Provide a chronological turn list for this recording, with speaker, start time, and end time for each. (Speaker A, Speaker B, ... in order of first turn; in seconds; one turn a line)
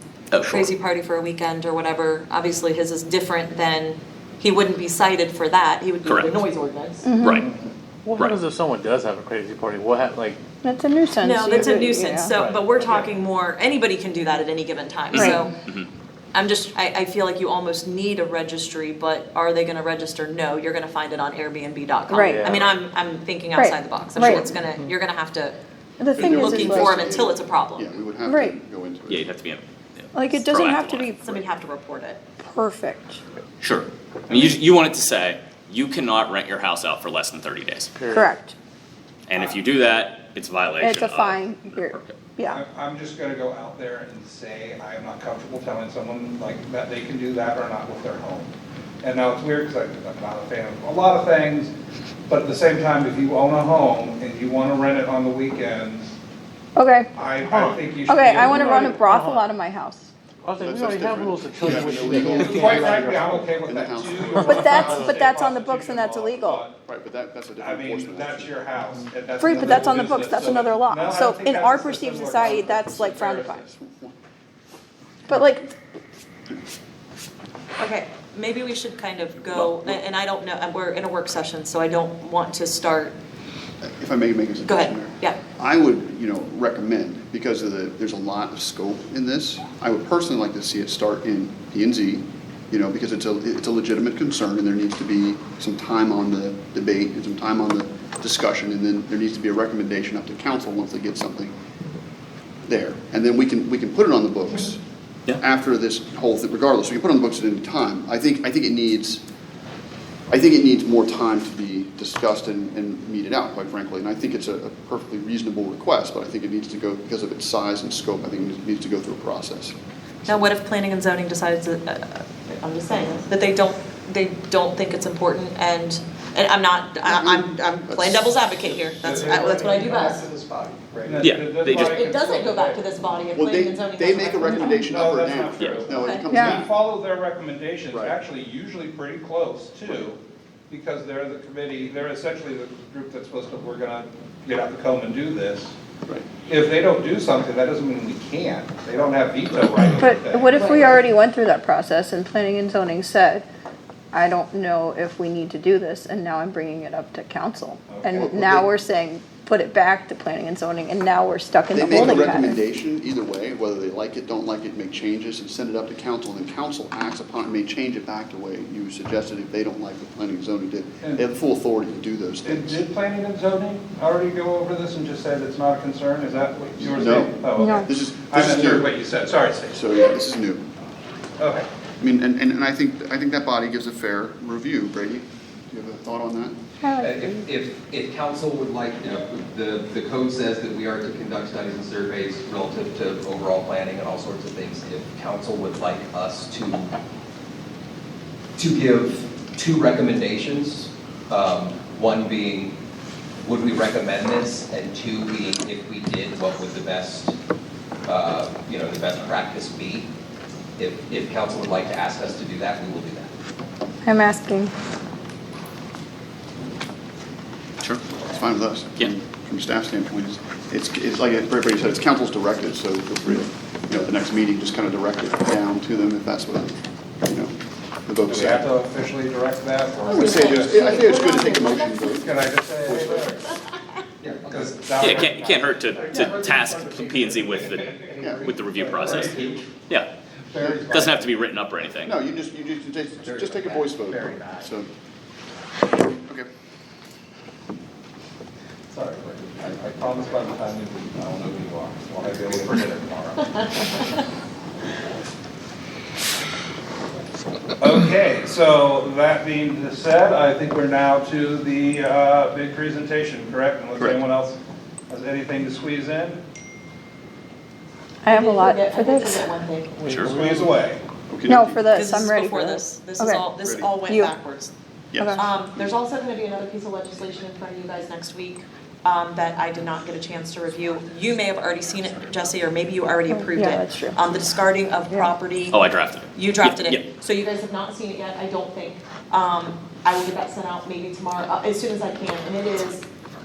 Speaker A: 0.3-0.7
Speaker B: 0.5-7.1
Speaker A: 6.0-6.4
Speaker C: 7.0-7.5
Speaker A: 7.2-7.5
Speaker D: 8.1-10.4
Speaker C: 10.6-12.3
Speaker B: 11.2-15.5
Speaker D: 12.4-13.0
Speaker A: 15.1-15.9
Speaker C: 15.2-15.4
Speaker B: 16.3-25.6
Speaker C: 22.1-22.6
Speaker D: 22.3-22.7
Speaker C: 23.5-24.5
Speaker C: 26.0-27.1
Speaker B: 26.2-27.9
Speaker E: 26.2-29.2
Speaker C: 28.2-28.6
Speaker A: 29.1-31.1
Speaker C: 30.1-31.4
Speaker B: 31.2-32.2
Speaker C: 32.4-33.2
Speaker A: 33.6-38.0
Speaker F: 34.3-34.5
Speaker D: 38.0-38.3
Speaker C: 38.1-38.5
Speaker A: 39.3-42.2
Speaker C: 40.8-42.6
Speaker F: 42.5-51.7
Speaker F: 52.3-56.1
Speaker C: 56.8-57.1
Speaker F: 57.1-59.0
Speaker D: 57.5-58.0
Speaker C: 58.0-60.1
Speaker D: 58.6-59.5
Speaker D: 60.4-63.6
Speaker E: 60.6-64.8
Speaker F: 61.7-66.8
Speaker D: 64.3-65.0
Speaker C: 64.4-66.7
Speaker E: 66.9-68.5
Speaker F: 67.6-73.5
Speaker C: 69.4-73.6
Speaker E: 72.8-74.2
Speaker C: 75.3-75.8
Speaker B: 77.8-83.2
Speaker E: 83.8-101.5
Speaker B: 84.6-85.4
Speaker E: 102.7-104.8
Speaker E: 105.4-109.2
Speaker E: 110.3-119.8
Speaker B: 120.3-130.3
Speaker E: 127.0-128.3
Speaker F: 129.0-130.1
Speaker G: 130.1-131.3
Speaker F: 131.0-132.8
Speaker A: 131.2-132.0
Speaker B: 131.7-134.8
Speaker E: 133.3-136.7
Speaker F: 134.8-140.2
Speaker B: 135.9-136.3
Speaker C: 136.3-136.7
Speaker F: 140.7-145.7
Speaker F: 146.4-150.9
Speaker C: 149.9-153.4
Speaker B: 150.6-151.0
Speaker C: 154.1-162.6
Speaker F: 157.9-158.2
Speaker E: 158.1-158.7
Speaker E: 161.7-172.8
Speaker F: 172.4-179.8
Speaker E: 176.8-178.9
Speaker C: 177.5-177.9
Speaker E: 179.7-180.7
Speaker F: 181.4-181.7
Speaker E: 182.0-186.6
Speaker C: 186.8-187.5
Speaker G: 187.0-196.9
Speaker G: 198.6-202.8
Speaker G: 203.4-207.4
Speaker G: 208.1-210.1
Speaker G: 210.8-213.3
Speaker C: 214.0-214.7
Speaker E: 218.2-228.7
Speaker F: 228.3-230.9
Speaker B: 230.1-232.2
Speaker E: 230.1-232.4
Speaker F: 232.2-233.5
Speaker B: 233.3-233.5
Speaker F: 234.2-236.4
Speaker G: 234.2-235.0
Speaker A: 235.0-240.1
Speaker D: 236.1-237.3
Speaker F: 237.9-239.7
Speaker D: 238.1-238.3
Speaker E: 238.2-238.5
Speaker G: 239.2-239.5
Speaker F: 240.5-241.3
Speaker E: 240.6-240.8
Speaker A: 240.9-242.2
Speaker E: 242.0-244.9
Speaker F: 243.3-244.7
Speaker G: 243.6-243.9
Speaker E: 246.2-246.5
Speaker F: 248.9-254.0
Speaker F: 257.8-264.6
Speaker E: 264.0-264.2
Speaker F: 265.1-266.4
Speaker C: 268.2-269.5
Speaker B: 268.3-270.2
Speaker D: 270.0-270.7
Speaker A: 270.1-270.3
Speaker F: 270.2-271.0
Speaker E: 271.3-271.8
Speaker C: 271.5-273.4
Speaker B: 271.9-274.7
Speaker E: 273.6-273.9
Speaker C: 274.1-274.3
Speaker E: 275.1-275.4
Speaker C: 275.2-275.4
Speaker B: 275.4-285.8
Speaker C: 283.3-284.3
Speaker A: 285.7-287.0
Speaker B: 286.3-293.1